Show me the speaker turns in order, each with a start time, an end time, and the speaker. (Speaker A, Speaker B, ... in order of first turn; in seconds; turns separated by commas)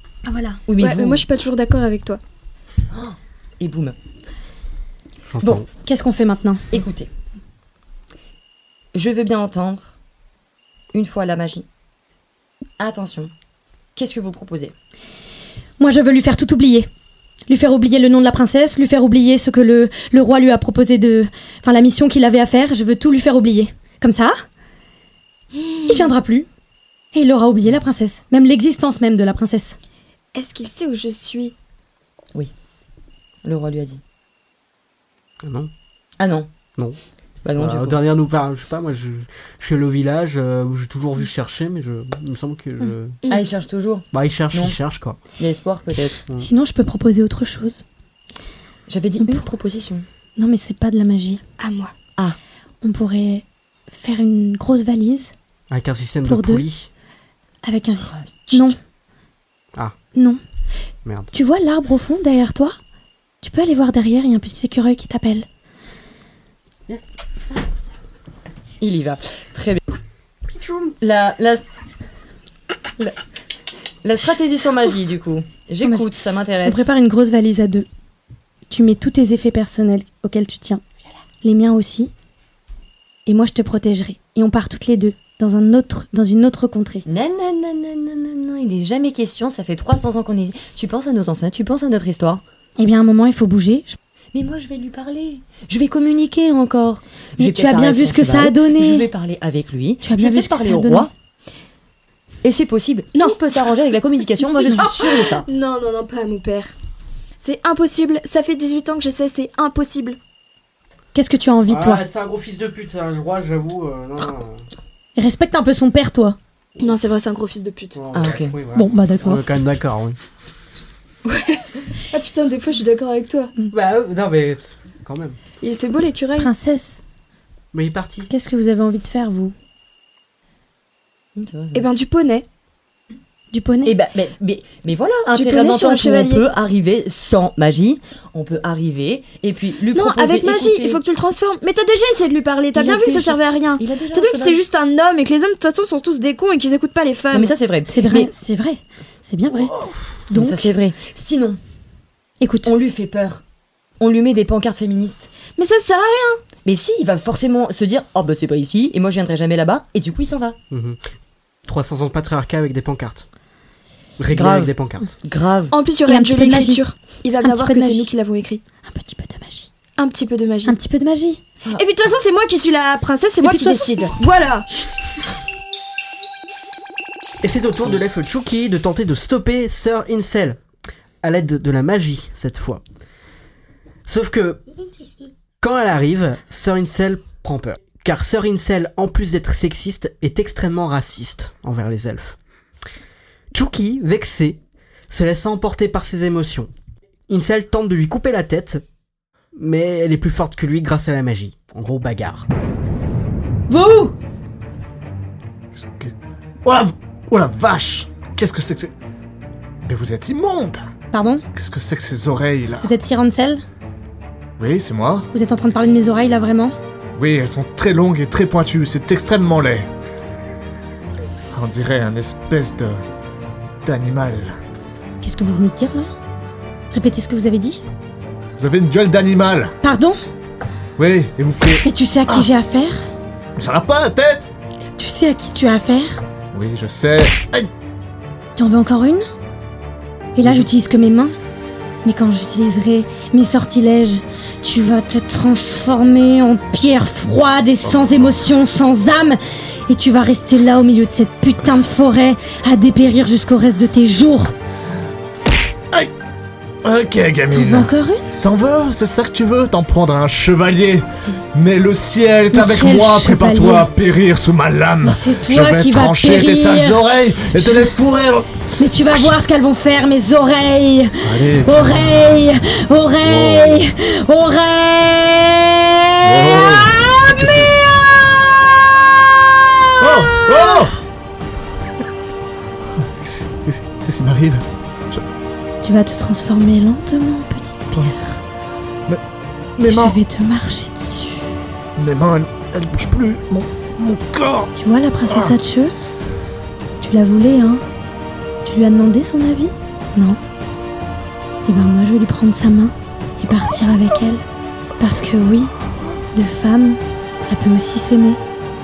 Speaker A: 0.2-0.6, Speaker B: 0.7-1.2, Speaker C: 0.8-2.2, Speaker B: 2.9-4.0, Speaker D: 5.3-5.7, Speaker A: 5.8-6.6, Speaker B: 6.7-7.1, Speaker B: 8.9-9.9, Speaker B: 10.9-11.7, Speaker B: 12.8-13.3, Speaker B: 13.9-14.7, Speaker A: 15.8-16.9, Speaker A: 17.5-24.4, Speaker C: 25.5-26.1, Speaker A: 25.9-26.5, Speaker A: 27.1-29.8, Speaker C: 30.3-31.5, Speaker B: 33.4-34.0, Speaker D: 35.4-35.7, Speaker B: 36.2-36.5, Speaker B: 37.4-38.0, Speaker D: 37.6-43.2, Speaker B: 43.3-44.8, Speaker D: 44.1-45.2, Speaker B: 45.4-46.2, Speaker A: 46.4-47.8, Speaker B: 48.9-50.0, Speaker A: 49.2-49.5, Speaker A: 50.4-51.4, Speaker C: 51.6-51.9, Speaker A: 52.8-55.3, Speaker D: 55.7-56.9, Speaker A: 56.2-56.6, Speaker A: 57.6-58.8, Speaker B: 58.0-58.8, Speaker A: 60.1-60.4, Speaker D: 61.0-61.3, Speaker A: 61.3-62.8, Speaker A: 63.4-65.5, Speaker B: 68.8-69.8, Speaker D: 70.5-70.9, Speaker B: 71.0-71.6, Speaker B: 74.0-76.9, Speaker A: 75.8-76.1, Speaker A: 76.6-77.9, Speaker A: 78.7-80.8, Speaker A: 81.4-82.1, Speaker A: 83.2-87.0, Speaker B: 87.0-92.4, Speaker A: 92.8-94.0, Speaker B: 94.3-101.1, Speaker A: 97.4-99.1, Speaker A: 100.0-101.1, Speaker B: 102.4-105.4, Speaker C: 104.7-106.7, Speaker C: 107.4-110.2, Speaker A: 111.1-112.0, Speaker D: 111.7-114.6, Speaker A: 115.2-116.4, Speaker C: 116.8-118.0, Speaker D: 117.9-120.2, Speaker B: 118.1-118.5, Speaker A: 118.7-119.4, Speaker C: 121.2-123.5, Speaker D: 123.7-125.4, Speaker C: 125.6-126.5, Speaker A: 126.4-127.0, Speaker D: 127.7-128.3, Speaker A: 128.3-129.5, Speaker B: 131.3-131.9, Speaker C: 131.7-132.4, Speaker A: 133.5-134.0, Speaker B: 133.8-141.0, Speaker C: 135.3-136.4, Speaker C: 139.9-147.5, Speaker B: 142.7-144.6, Speaker B: 147.3-148.3, Speaker A: 147.9-150.7, Speaker B: 150.3-151.6, Speaker A: 152.4-152.7, Speaker B: 152.6-153.4, Speaker B: 154.0-155.3, Speaker C: 155.6-156.4, Speaker B: 156.6-160.6, Speaker D: 160.7-161.0, Speaker D: 161.7-163.2, Speaker D: 164.2-165.1, Speaker B: 164.3-165.7, Speaker C: 165.7-168.6, Speaker A: 166.1-166.8, Speaker A: 167.4-168.1, Speaker A: 168.8-169.7, Speaker C: 169.9-170.8, Speaker A: 170.7-171.4, Speaker C: 171.8-174.7, Speaker A: 173.4-174.1, Speaker D: 177.4-180.6, Speaker D: 181.2-182.8, Speaker D: 184.1-184.6, Speaker D: 185.6-192.4, Speaker D: 193.5-196.7, Speaker D: 197.3-198.8, Speaker D: 199.6-202.4, Speaker A: 203.7-204.1, Speaker E: 205.7-206.1, Speaker E: 206.6-208.9, Speaker E: 209.8-210.8, Speaker A: 211.1-211.4, Speaker E: 211.5-212.9, Speaker A: 212.8-213.6, Speaker E: 214.6-215.3, Speaker A: 215.3-216.7, Speaker E: 217.2-219.9, Speaker E: 221.5-223.0, Speaker E: 223.8-224.6, Speaker A: 225.2-226.1, Speaker A: 226.9-227.8, Speaker E: 228.6-229.7, Speaker A: 229.8-230.2, Speaker E: 231.0-232.5, Speaker A: 231.8-233.1, Speaker E: 233.6-234.5, Speaker A: 235.0-236.2, Speaker E: 236.5-237.7, Speaker A: 238.6-239.2, Speaker A: 240.3-241.3, Speaker A: 242.0-254.5, Speaker E: 247.8-248.4, Speaker E: 256.8-269.4, Speaker A: 257.5-258.3, Speaker A: 262.5-263.9, Speaker A: 265.0-267.9, Speaker A: 268.8-276.9, Speaker E: 271.2-272.3, Speaker E: 273.2-273.9, Speaker E: 276.2-277.7, Speaker E: 280.0-281.0, Speaker E: 282.9-285.2, Speaker A: 285.8-288.4, Speaker E: 289.8-290.2, Speaker A: 289.8-291.5, Speaker E: 291.9-294.7, Speaker A: 294.8-295.9, Speaker E: 295.3-295.5, Speaker A: 297.0-297.8, Speaker A: 298.6-300.4, Speaker A: 301.6-304.4, Speaker A: 305.0-305.7, Speaker A: 306.3-308.4